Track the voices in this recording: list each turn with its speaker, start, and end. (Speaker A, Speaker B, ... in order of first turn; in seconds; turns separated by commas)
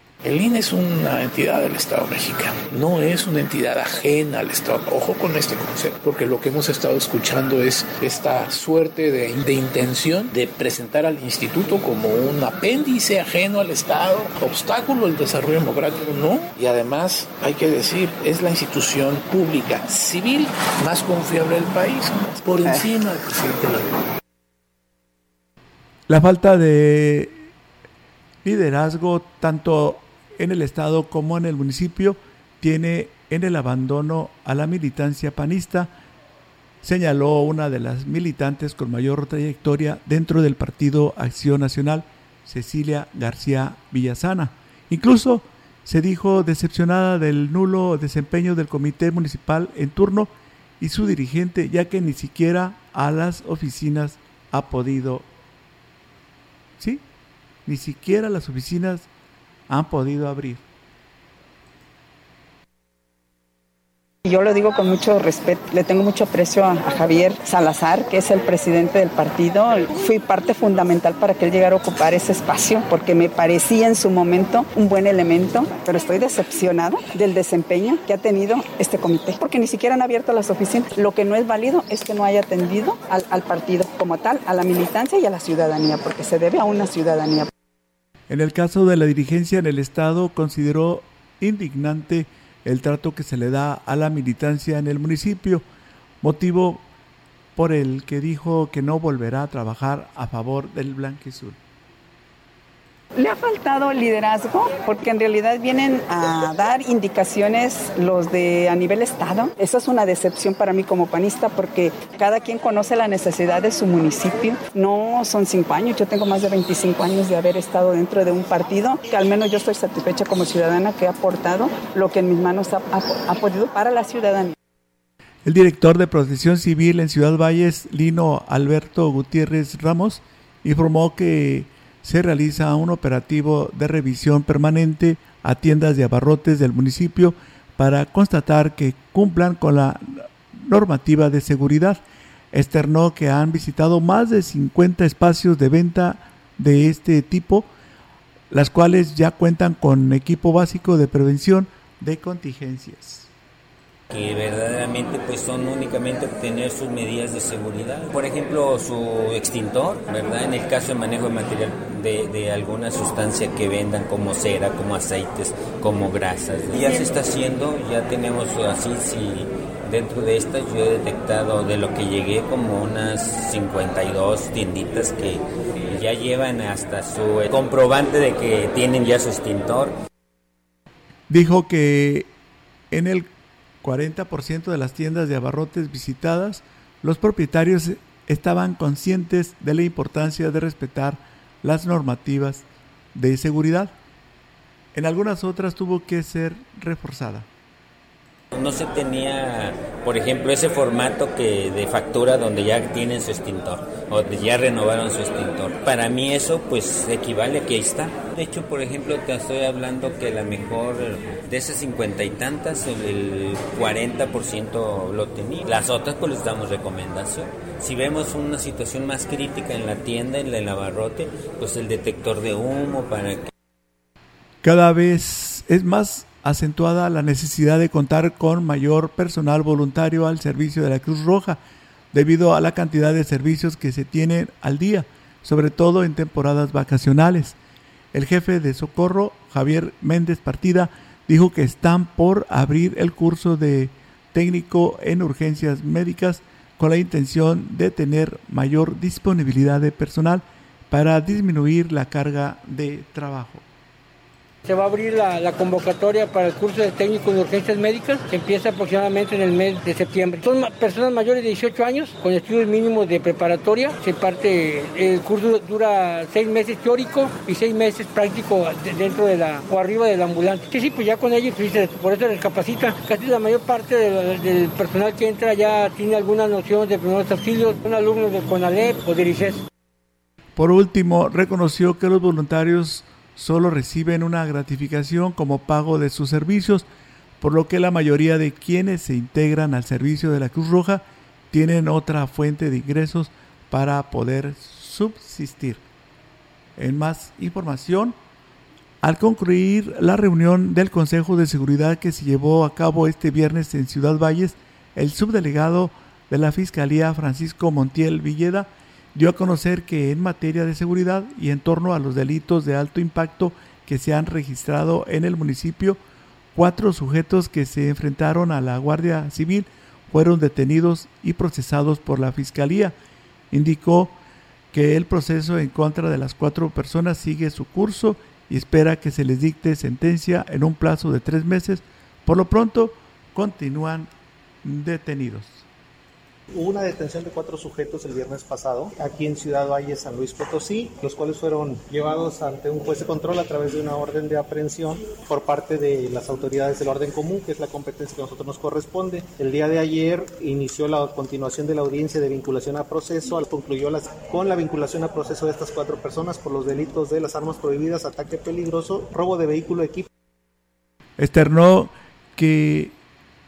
Speaker A: 0.2-23.9, Speaker B: 26.1-27.5, Speaker B: 28.4-35.9, Speaker B: 36.8-55.3, Speaker B: 56.8-57.0, Speaker B: 57.6-59.1, Speaker B: 59.7-60.6, Speaker C: 64.2-87.5, Speaker B: 88.3-95.7, Speaker B: 96.2-96.8, Speaker B: 97.5-101.6, Speaker C: 103.2-124.5, Speaker B: 125.4-147.7, Speaker B: 148.5-153.3, Speaker D: 154.1-179.9, Speaker B: 181.3-182.3, Speaker B: 182.9-183.3, Speaker B: 183.8-193.9, Speaker B: 194.9-197.5, Speaker D: 198.5-223.5, Speaker B: 224.6-231.6, Speaker B: 232.1-237.6, Speaker B: 238.1-253.6, Speaker E: 254.7-279.6, Speaker B: 280.6-286.9, Speaker B: 287.4-295.8, Speaker B: 296.8-298.1, Speaker B: 299.0-316.0, Speaker B: 316.5-322.9, Speaker B: 323.5-324.2, Speaker B: 324.7-334.1, Speaker B: 334.6-335.7, Speaker F: 336.5-360.1, Speaker B: 361.2-362.9